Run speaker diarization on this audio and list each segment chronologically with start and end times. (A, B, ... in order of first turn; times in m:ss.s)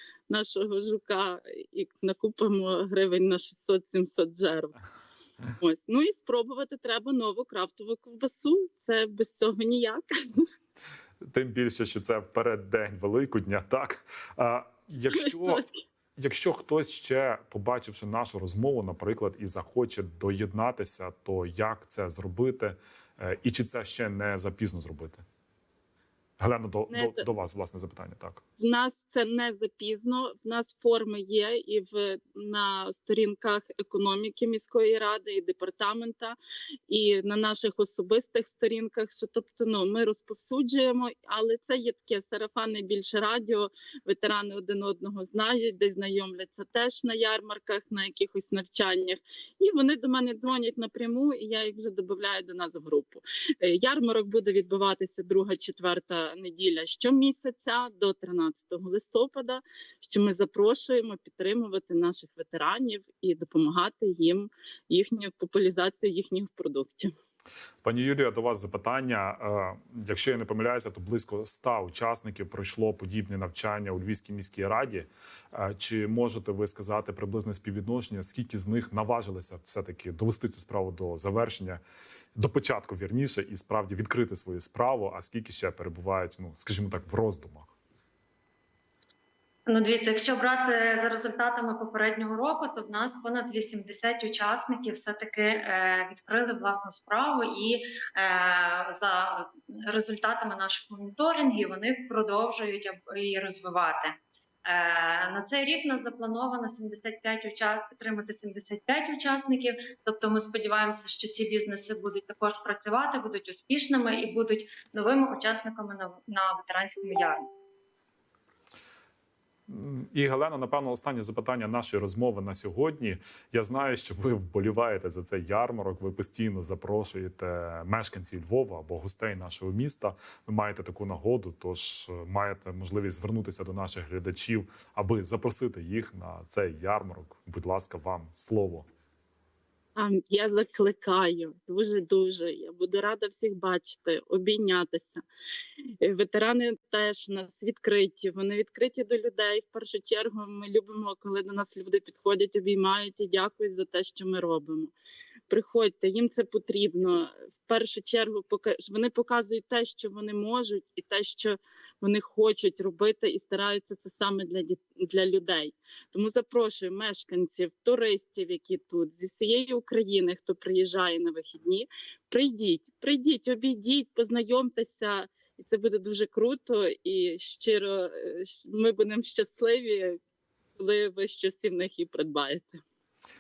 0:00.3-0:04.7 A
0:05.6-0:10.4 A
0:11.3-0:15.6 B
0:15.1-0:15.7 A
0:16.2-0:25.2 B
0:26.4-0:28.4 B
0:26.9-0:27.3 A
0:28.6-0:36.4 A
0:36.9-1:07.1 A
1:07.8-1:21.8 B
1:22.4-1:27.7 B
1:29.7-1:57.4 C
1:59.7-2:18.9 B
2:20.0-2:25.2 A
2:25.8-2:34.9 A
2:35.5-3:00.2 A
3:00.8-3:02.8 A